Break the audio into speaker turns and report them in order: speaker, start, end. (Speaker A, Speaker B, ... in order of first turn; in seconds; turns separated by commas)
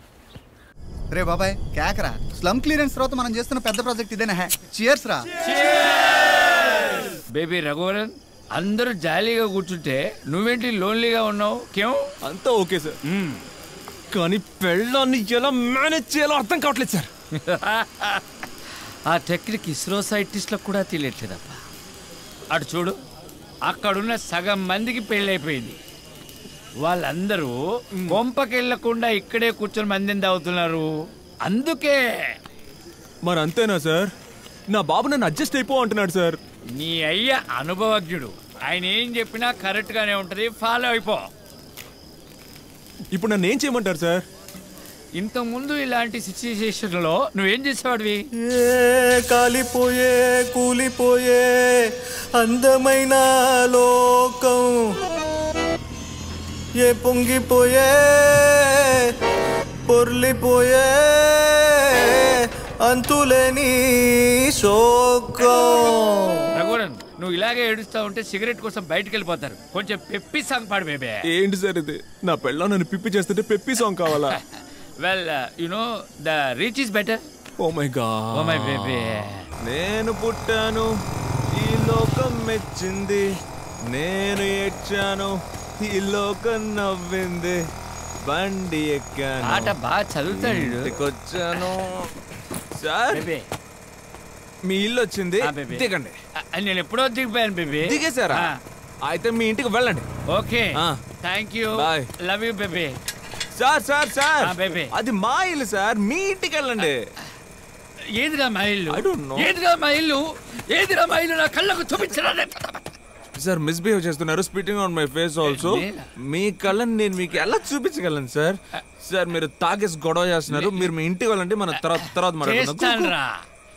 Speaker A: 1.1-5.2, Speaker B: 5.5-12.0, Speaker C: 12.2-13.0, Speaker B: 13.1-13.4, Speaker C: 14.1-17.1, Speaker B: 17.5-18.2, Speaker B: 19.1-21.6, Speaker B: 22.5-23.0, Speaker B: 23.6-25.8, Speaker B: 26.8-32.4, Speaker C: 33.2-34.1, Speaker C: 34.7-36.4, Speaker B: 36.7-41.3, Speaker C: 43.1-44.2, Speaker B: 45.2-48.2, Speaker D: 48.5-51.7, Speaker D: 52.4-54.7, Speaker D: 56.8-58.9, Speaker D: 59.9-62.3, Speaker D: 62.9-66.2, Speaker B: 65.4-66.0, Speaker B: 66.5-71.2, Speaker C: 71.3-74.4, Speaker B: 74.1-77.2, Speaker C: 77.6-80.9, Speaker B: 78.3-79.4, Speaker C: 81.5-83.3, Speaker C: 83.8-87.6, Speaker C: 88.2-92.1, Speaker B: 89.4-91.0, Speaker C: 92.8-93.3, Speaker B: 93.1-93.4, Speaker C: 94.7-96.2, Speaker B: 95.4-95.9, Speaker B: 96.5-98.5, Speaker C: 97.8-98.5, Speaker C: 99.0-100.1, Speaker B: 100.3-103.0, Speaker C: 100.8-101.0, Speaker C: 101.7-102.1, Speaker C: 103.5-107.0, Speaker B: 104.4-104.9, Speaker B: 108.2-112.9, Speaker C: 108.9-109.5, Speaker C: 113.3-123.1, Speaker B: 115.4-116.1, Speaker B: 120.5-120.9, Speaker B: 121.8-123.3